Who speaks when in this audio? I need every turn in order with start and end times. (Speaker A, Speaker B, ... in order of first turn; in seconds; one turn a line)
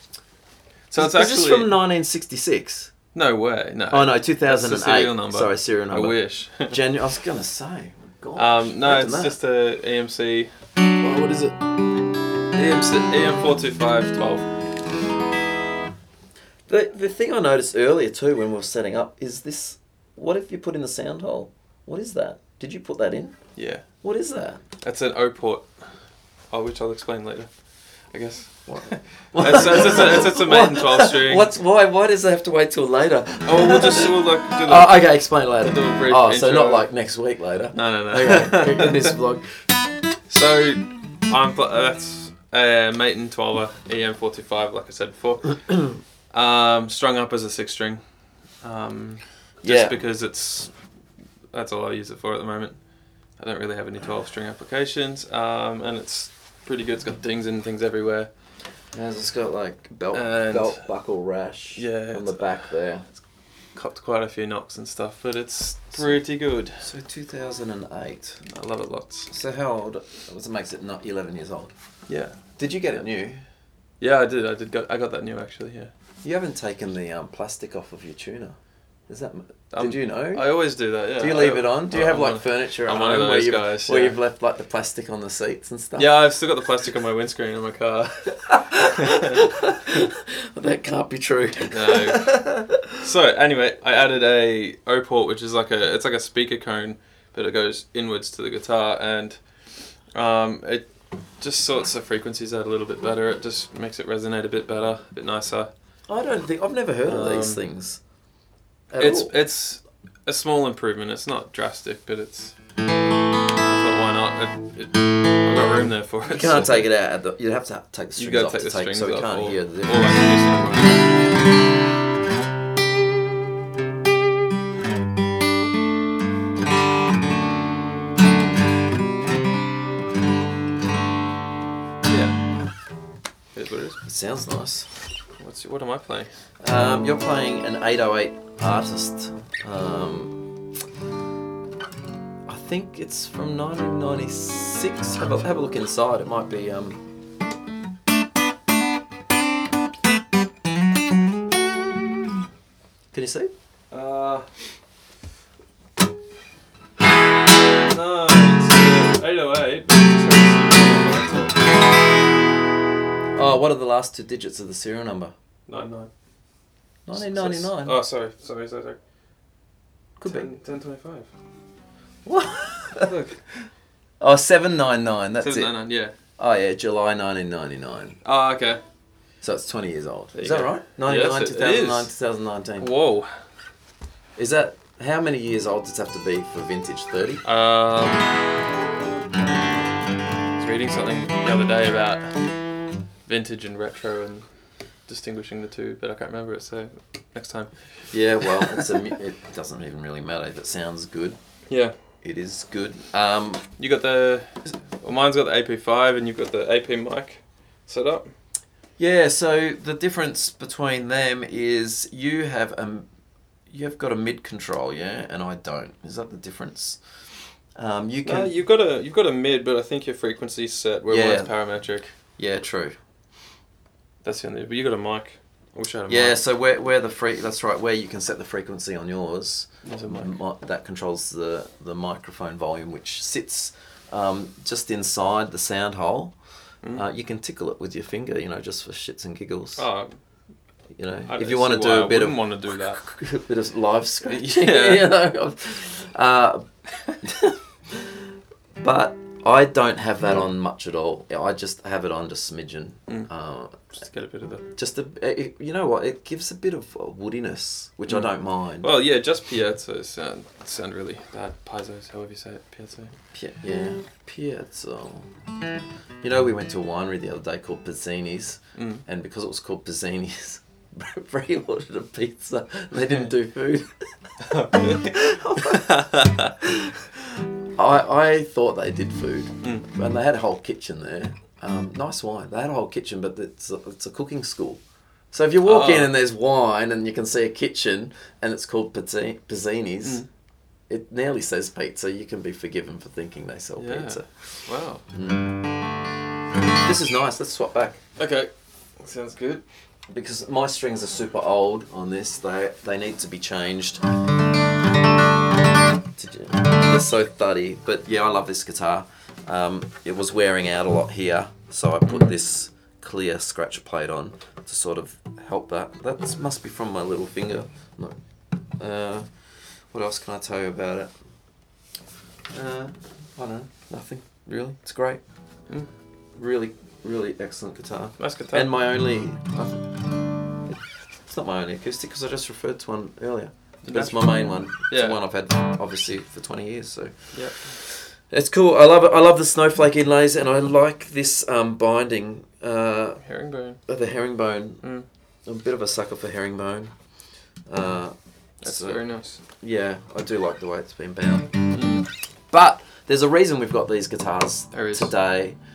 Speaker A: 0.9-1.7
Speaker B: 0.9-2.9
Speaker A: 3.1-6.8
Speaker B: 3.9-9.3
Speaker A: 8.3-10.5
Speaker B: 11.0-11.5
Speaker A: 11.1-11.5
Speaker A: 12.6-14.5
Speaker B: 16.7-23.4
Speaker A: 23.6-23.8
Speaker B: 24.0-24.6
Speaker A: 24.8-25.7
Speaker A: 26.5-27.5
Speaker A: 28.1-31.5
Speaker B: 28.7-39.5
Speaker A: 33.5-35.0
Speaker A: 35.6-36.9
Speaker A: 37.7-39.1
Speaker A: 40.3-45.6
Speaker A: 46.3-48.0
Speaker A: 48.6-50.7
Speaker B: 49.6-50.0
Speaker A: 51.5-52.8
Speaker A: 53.4-58.3
Speaker B: 58.9-63.1
Speaker A: 60.1-60.8
Speaker A: 61.8-62.6
Speaker A: 63.8-66.8
Speaker B: 66.8-68.4
Speaker A: 68.5-69.3
Speaker B: 69.3-71.7
Speaker A: 72.1-72.4
Speaker B: 72.6-73.4
Speaker A: 74.0-75.9
Speaker B: 76.2-80.5
Speaker A: 79.7-84.2
Speaker B: 81.2-86.1
Speaker A: 86.0-89.5
Speaker B: 88.5-93.0
Speaker A: 91.7-92.3
Speaker A: 93.0-99.4
Speaker A: 100.2-100.9
Speaker A: 101.4-105.7
Speaker B: 106.1-108.0
Speaker A: 107.0-107.6
Speaker B: 108.9-109.3
Speaker A: 109.0-112.5
Speaker A: 113.6-116.8
Speaker B: 116.3-120.2
Speaker A: 118.2-121.0
Speaker A: 132.1-132.4
Speaker A: 133.5-134.0
Speaker B: 134.0-134.9
Speaker A: 135.4-136.3
Speaker B: 136.6-140.4
Speaker B: 142.5-147.0
Speaker B: 153.1-153.5
Speaker A: 153.9-154.5
Speaker A: 157.8-161.6
Speaker B: 163.3-165.3
Speaker A: 165.7-166.1
Speaker B: 167.1-168.0
Speaker A: 167.1-169.0
Speaker B: 170.2-170.5
Speaker A: 170.2-171.3
Speaker B: 172.2-173.1
Speaker A: 173.0-173.4
Speaker B: 174.2-175.7
Speaker A: 175.4-176.1
Speaker B: 176.4-178.2
Speaker A: 178.2-178.8
Speaker B: 179.4-182.9
Speaker A: 180.3-182.1
Speaker A: 182.8-183.3
Speaker B: 184.4-187.4
Speaker A: 187.4-188.3
Speaker A: 190.6-192.4
Speaker A: 193.3-194.5
Speaker A: 195.1-197.7
Speaker B: 198.1-201.4
Speaker A: 198.4-198.9
Speaker A: 201.7-201.9
Speaker B: 202.2-203.7
Speaker A: 203.8-208.3
Speaker B: 209.0-213.1
Speaker B: 213.7-217.0
Speaker B: 217.8-218.5
Speaker A: 218.2-222.1
Speaker B: 221.1-221.5
Speaker B: 222.4-223.0
Speaker A: 224.2-226.4
Speaker B: 226.1-236.3
Speaker A: 229.8-230.3
Speaker B: 236.9-239.8
Speaker A: 239.8-240.2
Speaker B: 241.0-246.7
Speaker A: 241.3-243.0
Speaker A: 244.3-245.1
Speaker B: 247.2-248.2
Speaker B: 248.8-253.8
Speaker A: 253.9-254.7
Speaker B: 254.7-258.9
Speaker A: 258.1-263.1
Speaker B: 263.3-265.3
Speaker B: 266.2-290.2
Speaker A: 268.8-269.0
Speaker A: 274.4-276.5
Speaker A: 285.6-286.1
Speaker B: 290.9-294.3
Speaker A: 293.8-295.0
Speaker B: 295.1-295.5
Speaker B: 296.8-298.0
Speaker A: 298.2-299.6
Speaker B: 300.1-304.0
Speaker B: 306.1-318.2
Speaker A: 312.1-312.3
Speaker B: 318.8-319.3
Speaker B: 319.9-321.1
Speaker B: 322.5-325.2
Speaker B: 326.4-330.0
Speaker A: 328.2-328.7
Speaker B: 331.3-343.2
Speaker A: 333.9-335.2
Speaker A: 337.3-337.8
Speaker A: 343.2-343.8
Speaker B: 343.9-344.8
Speaker B: 345.5-346.9
Speaker B: 347.7-349.0
Speaker A: 348.6-349.4
Speaker B: 349.6-351.6
Speaker A: 351.7-352.1
Speaker B: 352.5-355.6
Speaker A: 354.7-355.1